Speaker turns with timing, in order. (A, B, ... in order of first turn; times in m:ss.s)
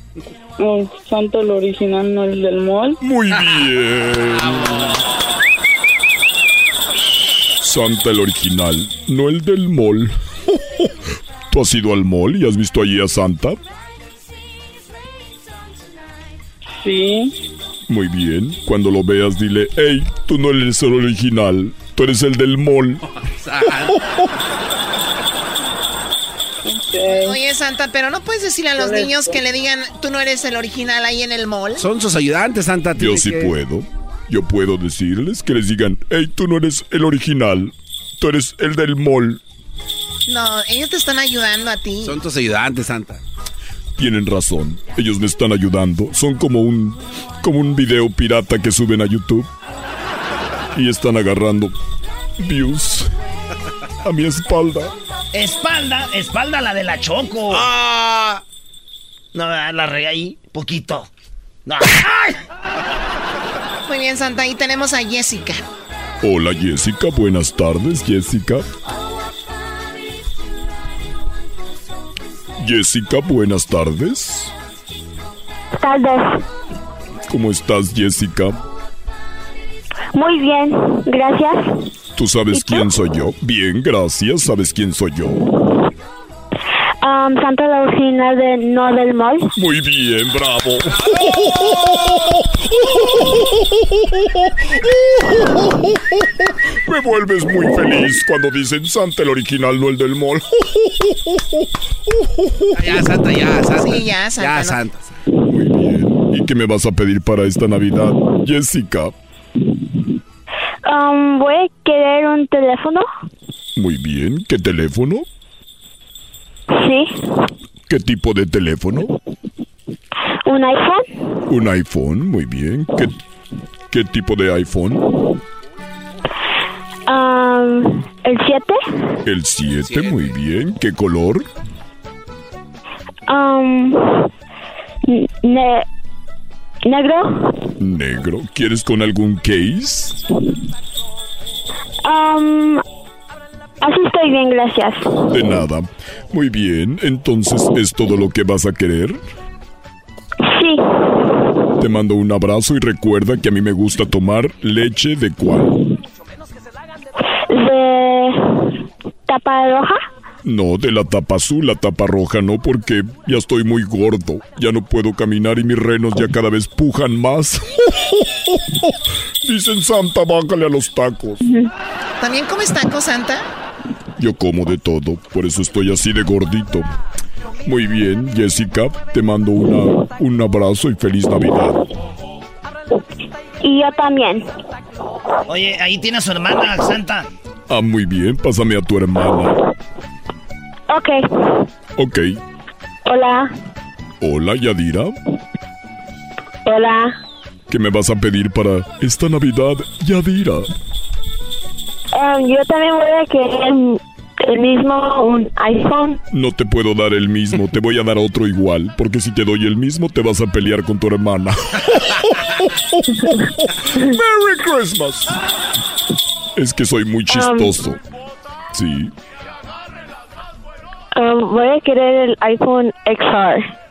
0:00.6-0:03.0 A
0:03.0-0:04.9 B
0:04.4-0:05.0 C
0:07.6-0:10.1 B
0:11.5-0:13.6 B
0:16.8-0:17.3 A
0:17.9-0:23.0 B
0:23.2-0:24.0 C
0:26.6-0:27.4 A
0:27.1-0:31.8 D
0:31.8-0:33.6 C
0:33.0-0:39.4 B
0:40.3-0:42.2 D
0:42.0-0:43.2 C
0:44.0-0:49.5 B
0:50.7-0:51.7 B
0:52.4-0:53.1 B
0:54.0-0:54.9 B
0:55.3-0:57.7 E
0:57.5-0:58.4 C
0:59.3-1:01.1 E
1:01.6-1:02.4 E
1:03.9-1:05.6 D
1:06.2-1:08.6 B
1:12.6-1:14.5 B
1:15.8-1:16.4 F
1:17.3-1:18.6 B
1:20.1-1:21.8 F
1:22.2-1:25.4 B
1:22.6-1:22.8 F
1:27.0-1:29.5 F
1:29.6-1:33.4 B
1:34.9-1:36.1 B
1:36.8-1:41.4 B
1:42.1-1:43.0 B
1:42.7-1:45.1 C
1:43.8-1:44.8 D
1:45.4-1:49.1 B
1:50.8-1:53.1 F
1:53.8-1:55.3 B
1:56.7-1:57.1 F
1:57.9-1:59.1 B
2:00.4-2:01.1 F
2:01.5-2:03.2 B
2:03.9-2:05.0 B
2:07.1-2:08.8 F
2:09.2-2:11.5 B
2:09.8-2:10.3 C
2:13.3-2:14.3 F
2:15.1-2:15.8 F
2:16.8-2:17.6 F
2:17.8-2:20.2 B
2:22.0-2:22.8 F
2:23.8-2:25.1 F
2:25.3-2:29.2 B
2:30.4-2:30.8 F
2:31.8-2:35.8 B
2:37.5-2:38.6 F
2:39.3-2:40.0 F
2:40.4-2:51.4 B
2:52.2-2:53.4 D
2:54.2-2:56.9 B
2:57.6-3:01.9 B
3:03.6-3:04.5 F
3:05.5-3:07.3 E
3:07.7-3:09.6 B
3:10.9-3:11.6 F
3:12.0-3:12.4 B
3:13.1-3:13.5 F
3:14.2-3:15.1 B
3:16.6-3:17.2 F
3:17.7-3:20.7 B
3:22.1-3:26.2 F
3:26.3-3:35.3 B
3:36.6-3:38.0 B
3:37.3-3:37.8 F
3:38.7-3:39.1 B
3:41.1-3:43.7 F